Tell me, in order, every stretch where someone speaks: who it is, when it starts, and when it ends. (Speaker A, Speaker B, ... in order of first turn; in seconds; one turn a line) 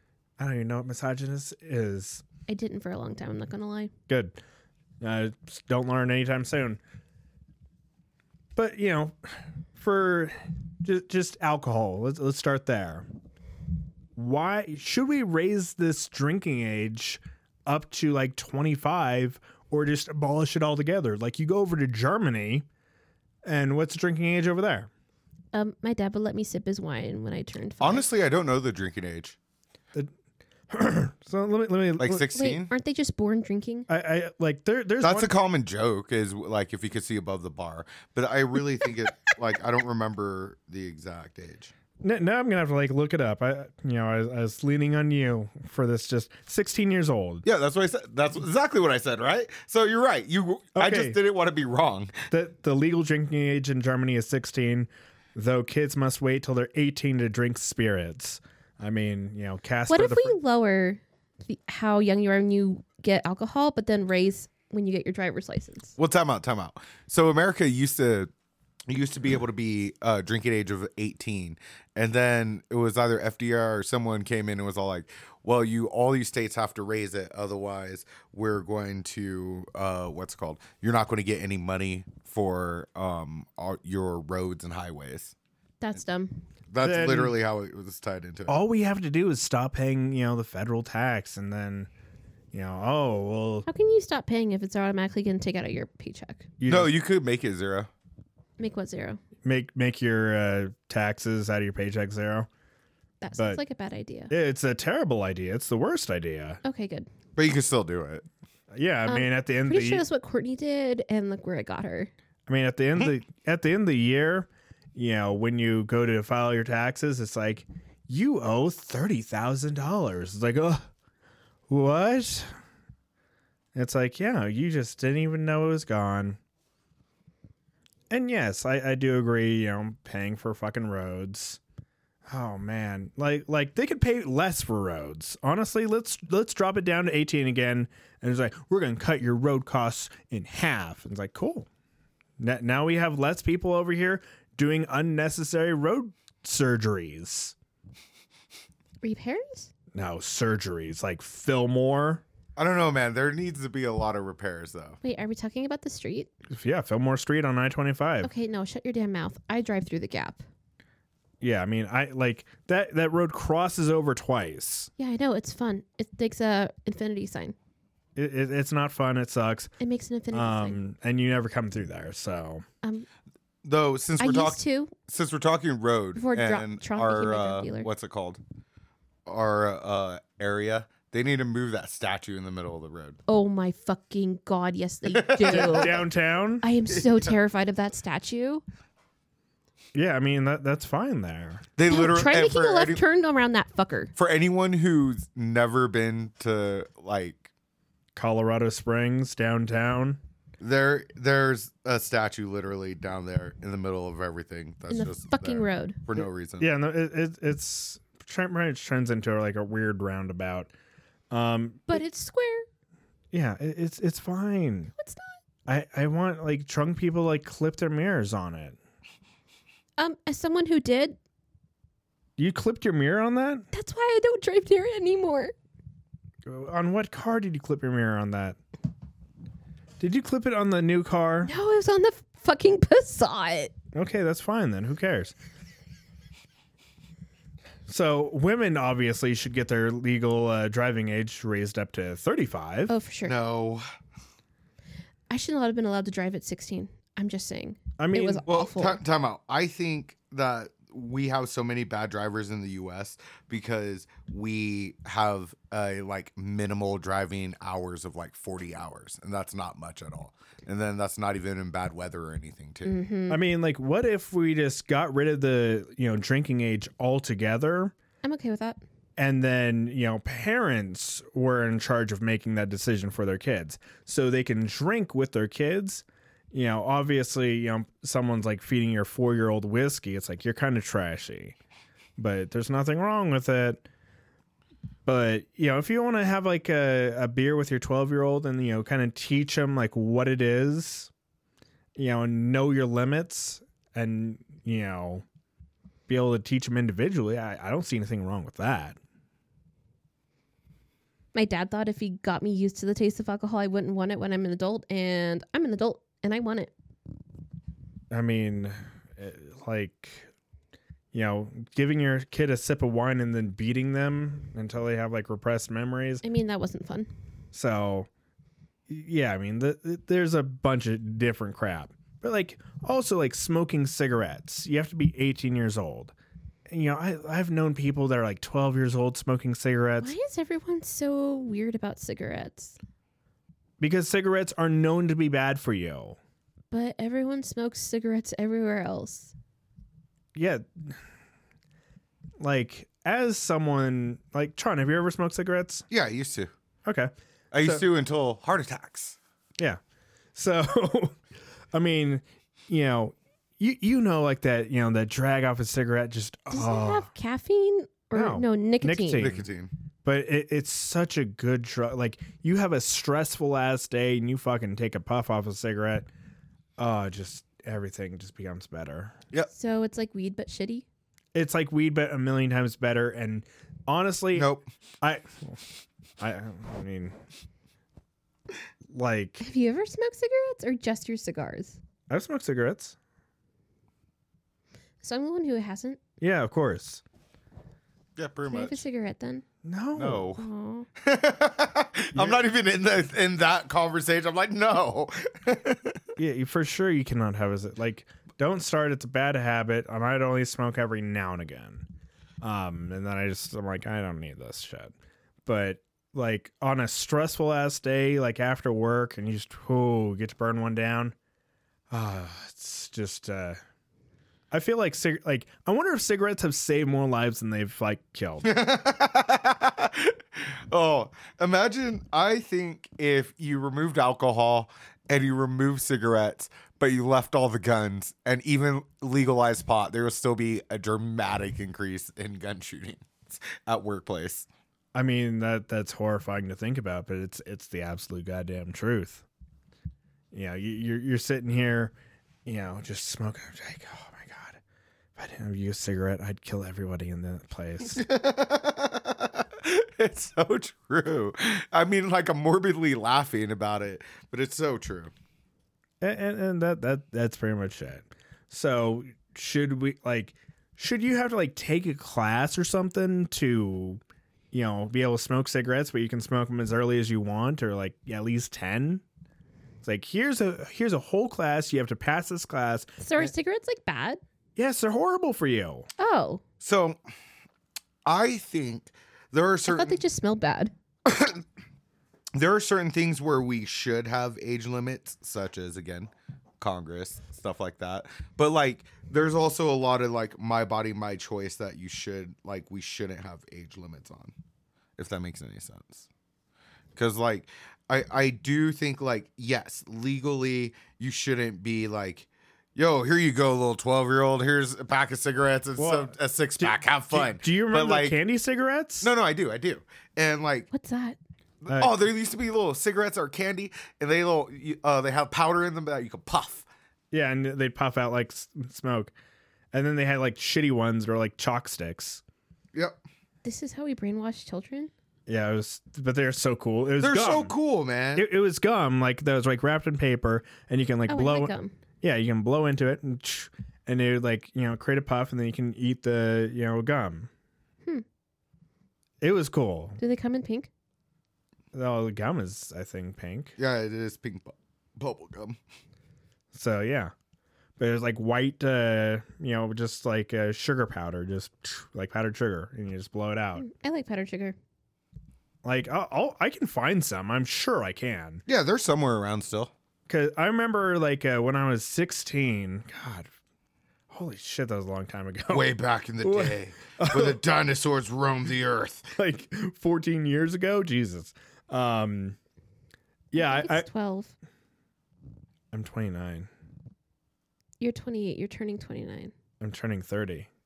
Speaker A: 0.4-2.2
Speaker B: 2.5-3.9
Speaker A: 4.1-4.3
Speaker A: 5.0-6.8
Speaker A: 8.6-13.1
Speaker A: 14.2-22.6
Speaker A: 23.4-24.9
Speaker B: 25.5-28.0
Speaker C: 27.8-29.4
Speaker A: 30.7-32.3
Speaker C: 32.0-32.7
Speaker B: 32.3-33.9
Speaker A: 33.9-35.3
Speaker C: 35.0-41.7
Speaker A: 42.0-47.4
Speaker C: 47.4-52.1
Speaker A: 50.7-51.2
Speaker A: 52.3-60.4
Speaker B: 59.9-65.9
Speaker C: 66.0-68.3
Speaker C: 68.9-85.3
Speaker B: 85.8-86.4
Speaker C: 86.7-88.5
Speaker A: 86.8-87.3
Speaker A: 88.5-91.9
Speaker A: 92.5-93.7
Speaker B: 93.7-96.5
Speaker A: 96.6-97.0
Speaker C: 96.7-97.9
Speaker B: 98.6-99.2
Speaker A: 99.4-102.5
Speaker B: 103.2-104.3
Speaker A: 104.3-106.6
Speaker B: 106.6-107.1
Speaker C: 107.3-108.2
Speaker A: 108.7-110.0
Speaker B: 109.1-112.1
Speaker A: 112.5-120.9
Speaker A: 121.7-122.5
Speaker A: 123.7-126.4
Speaker A: 128.1-131.6
Speaker A: 132.3-141.7
Speaker A: 142.4-147.5
Speaker B: 149.0-149.7
Speaker A: 149.9-152.2
Speaker C: 152.6-155.0
Speaker B: 155.0-156.3
Speaker A: 156.5-158.3
Speaker B: 158.2-160.4
Speaker A: 161.4-164.9
Speaker B: 165.0-167.5
Speaker A: 168.2-169.7
Speaker B: 169.8-170.8
Speaker A: 170.3-172.6
Speaker C: 173.6-178.4
Speaker B: 174.2-174.9
Speaker B: 176.2-177.9
Speaker C: 179.2-183.2
Speaker B: 183.3-186.0
Speaker C: 185.1-186.0
Speaker A: 185.4-186.7
Speaker B: 186.6-188.6
Speaker C: 186.9-187.3
Speaker A: 189.9-191.6
Speaker C: 191.8-193.0
Speaker B: 191.9-194.1
Speaker C: 194.1-197.5
Speaker A: 198.2-200.2
Speaker C: 200.6-206.7
Speaker B: 204.9-206.0
Speaker A: 206.6-210.7
Speaker A: 211.3-212.0
Speaker B: 211.9-212.7
Speaker A: 213.3-214.9
Speaker B: 215.0-215.3
Speaker A: 215.7-218.8
Speaker B: 220.0-221.2
Speaker A: 222.4-223.6
Speaker B: 223.7-225.5
Speaker A: 226.4-228.6
Speaker A: 230.0-231.5
Speaker B: 231.4-233.7
Speaker A: 233.9-235.3
Speaker A: 237.9-242.9
Speaker B: 242.9-243.3
Speaker C: 243.2-243.8
Speaker B: 245.3-249.0
Speaker A: 248.0-248.4
Speaker C: 248.5-263.0
Speaker B: 262.8-263.4
Speaker A: 263.3-267.9
Speaker B: 268.2-268.8
Speaker A: 269.2-281.6
Speaker A: 282.2-283.8
Speaker A: 285.1-291.1
Speaker A: 291.9-295.2
Speaker A: 296.1-299.0
Speaker B: 301.3-306.7
Speaker A: 308.1-310.3
Speaker A: 311.1-316.2
Speaker B: 316.2-317.1
Speaker A: 317.5-318.1
Speaker A: 318.9-326.1
Speaker A: 326.7-330.1
Speaker B: 330.0-332.8
Speaker A: 333.8-336.2
Speaker B: 336.7-339.3
Speaker A: 340.3-341.0
Speaker A: 342.4-345.9
Speaker C: 345.9-346.5
Speaker A: 346.9-347.8
Speaker C: 347.5-349.2
Speaker A: 350.3-351.2
Speaker A: 351.7-357.1
Speaker B: 356.5-359.3
Speaker A: 358.1-359.4
Speaker C: 359.1-359.7
Speaker A: 360.0-366.1
Speaker A: 366.8-369.1
Speaker B: 369.5-370.9
Speaker A: 371.3-374.5
Speaker C: 374.3-374.6
Speaker A: 375.0-375.6
Speaker A: 376.2-377.1
Speaker A: 378.9-379.4
Speaker B: 379.4-381.8
Speaker A: 382.1-382.9
Speaker B: 385.0-386.0
Speaker A: 386.2-387.0
Speaker C: 388.2-388.8
Speaker B: 388.4-389.4
Speaker A: 389.6-390.3
Speaker C: 389.9-390.4
Speaker B: 390.4-390.9
Speaker C: 391.0-396.0
Speaker A: 392.1-392.4
Speaker A: 396.2-401.9
Speaker A: 402.4-404.9
Speaker A: 405.4-411.1
Speaker A: 411.9-413.6
Speaker A: 414.5-418.5
Speaker C: 418.4-434.5
Speaker A: 434.9-439.2
Speaker A: 440.3-441.9
Speaker A: 442.4-444.6
Speaker A: 445.1-448.0
Speaker C: 447.9-455.1
Speaker A: 456.0-464.0
Speaker A: 464.5-469.0
Speaker A: 469.8-473.3
Speaker B: 473.0-474.2
Speaker A: 474.6-475.9
Speaker B: 476.0-476.4
Speaker C: 476.6-477.0
Speaker C: 478.0-480.0
Speaker B: 479.6-480.7
Speaker C: 481.0-481.4
Speaker C: 482.3-494.3
Speaker C: 495.0-496.1
Speaker C: 496.9-508.2
Speaker A: 505.8-509.1
Speaker C: 509.0-510.7
Speaker B: 510.7-511.2
Speaker C: 511.6-516.6
Speaker A: 511.7-512.0
Speaker A: 517.1-519.1
Speaker A: 519.7-522.2
Speaker B: 523.4-524.9
Speaker A: 525.3-527.5
Speaker C: 527.0-528.2
Speaker A: 528.1-537.3
Speaker B: 531.1-531.7
Speaker A: 539.2-540.0
Speaker B: 540.0-540.7
Speaker A: 541.7-543.5
Speaker C: 543.6-545.6
Speaker A: 546.5-547.1
Speaker A: 547.8-553.6
Speaker B: 553.6-554.5
Speaker A: 555.6-558.4
Speaker C: 558.5-559.7
Speaker A: 560.1-563.3
Speaker A: 564.1-565.7
Speaker C: 565.5-569.1
Speaker A: 566.2-567.4
Speaker A: 569.1-572.4
Speaker A: 573.3-573.9
Speaker B: 573.3-574.3
Speaker A: 575.7-576.5
Speaker B: 577.8-579.3
Speaker A: 579.6-580.5